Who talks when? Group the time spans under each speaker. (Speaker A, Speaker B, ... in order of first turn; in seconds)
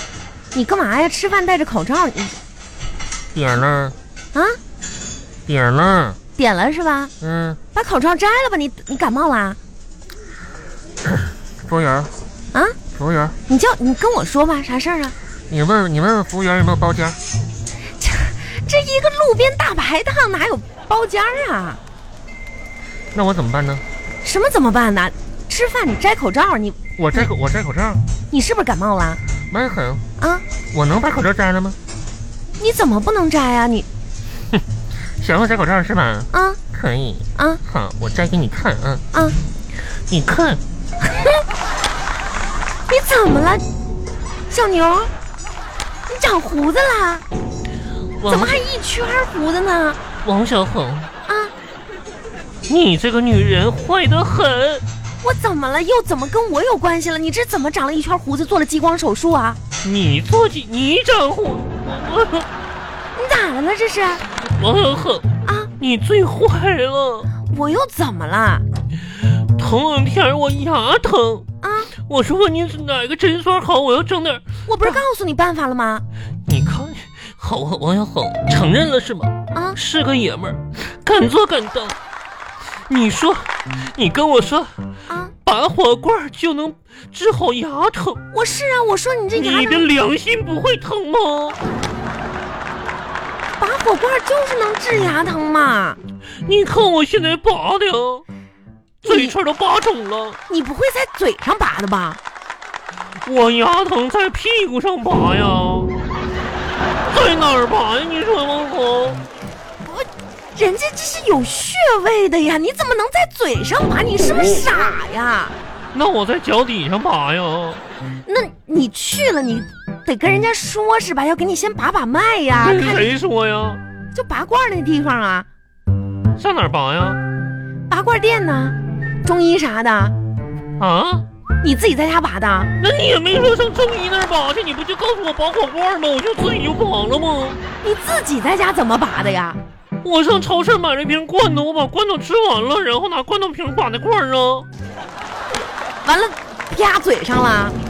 Speaker A: 0.5-2.4, 6.4-7.1, 7.7-9.6, 13.5-15.2, 18.0-21.8, 24.2-27.3, 28.3-29.2, 30.2-30.4, 32.6-33.9, 36.3-36.6, 37.4-37.6, 41.0-41.4, 42.9-43.6, 44.5-45.1, 46.1-47.2, 48.3-50.0, 55.2-59.6, 63.1-64.2, 65.5-65.7, 67.4-68.7, 71.6-71.9, 74.7-76.1, 79.5-79.8, 85.1-85.3, 88.3-89.9, 93.6-96.0, 99.0-99.4, 100.5-102.2, 109.8-115.5, 118.3-123.2, 124.1-125.5, 127.9-130.2, 131.6-132.7, 137.8-139.6, 146.0-147.8
Speaker B: 3.3-4.0, 5.5-6.2, 7.2-7.6, 11.7-12.1, 13.0-13.3, 15.5-17.2, 23.1-23.8, 27.0-28.0, 29.5-30.0, 30.7-31.8, 35.2-39.0, 40.1-40.6, 48.2-48.6, 50.2-51.1, 52.7-54.9, 59.8-62.5, 64.6-65.3, 65.8-67.3, 69.2-71.5, 72.1-75.0, 76.5-82.0, 82.9-84.8, 85.5-88.2, 89.4-91.6, 96.4-98.2, 99.0-100.4, 103.2-105.9, 107.0-109.2, 115.9-117.8, 122.6-123.8, 126.4-127.2, 130.8-131.2, 132.8-137.6, 140.0-144.7